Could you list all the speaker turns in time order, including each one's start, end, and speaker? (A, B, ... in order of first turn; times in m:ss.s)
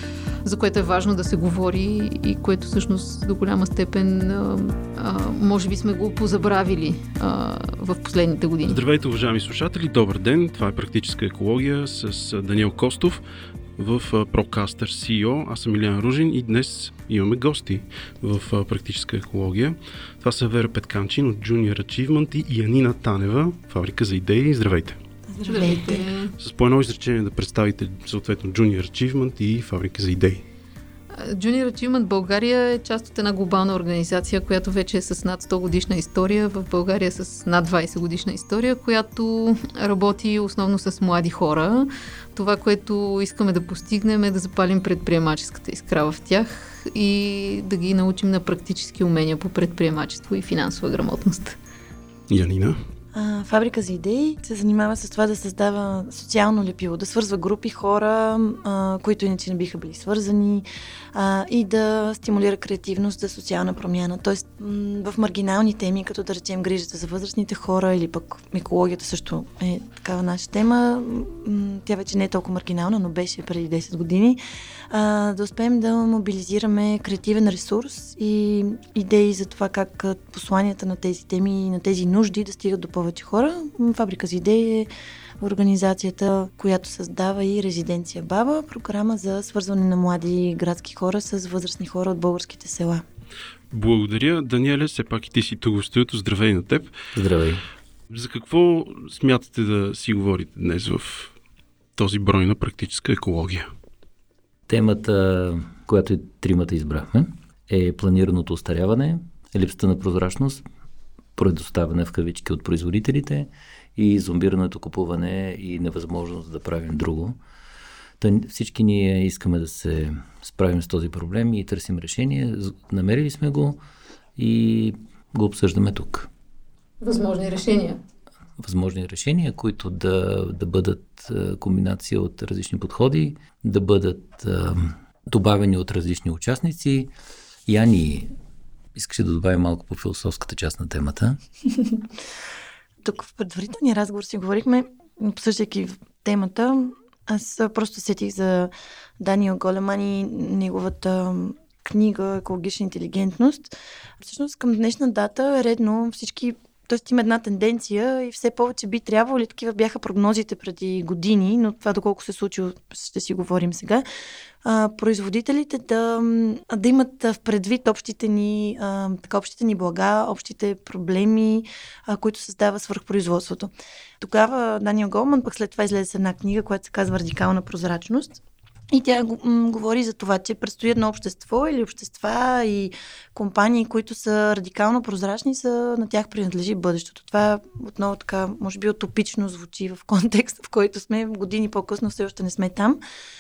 0:00.4-0:08.8 A
0:08.6-0:13.2 B
0:13.8-0:25.0 B
0:25.3-0:26.1 C
0:25.5-0:26.3 A
0:26.4-0:30.5 B
0:31.1-0:51.6 A
0:52.3-0:52.8 B
0:53.1-1:24.9 C
1:25.4-1:33.0 C
1:33.7-1:37.0 B
1:37.1-1:37.6 D
1:38.1-1:41.3 B
1:42.0-1:43.7 B
1:44.7-1:50.6 D
1:51.4-1:57.4 D
1:58.2-2:03.8 D
2:04.4-2:06.3 D
2:07.0-2:08.0 A
2:08.6-2:17.1 D
2:17.7-2:18.3 D
2:19.0-2:21.4 D
2:23.0-2:44.0 C
2:44.6-2:58.4 C
2:58.9-3:13.0 C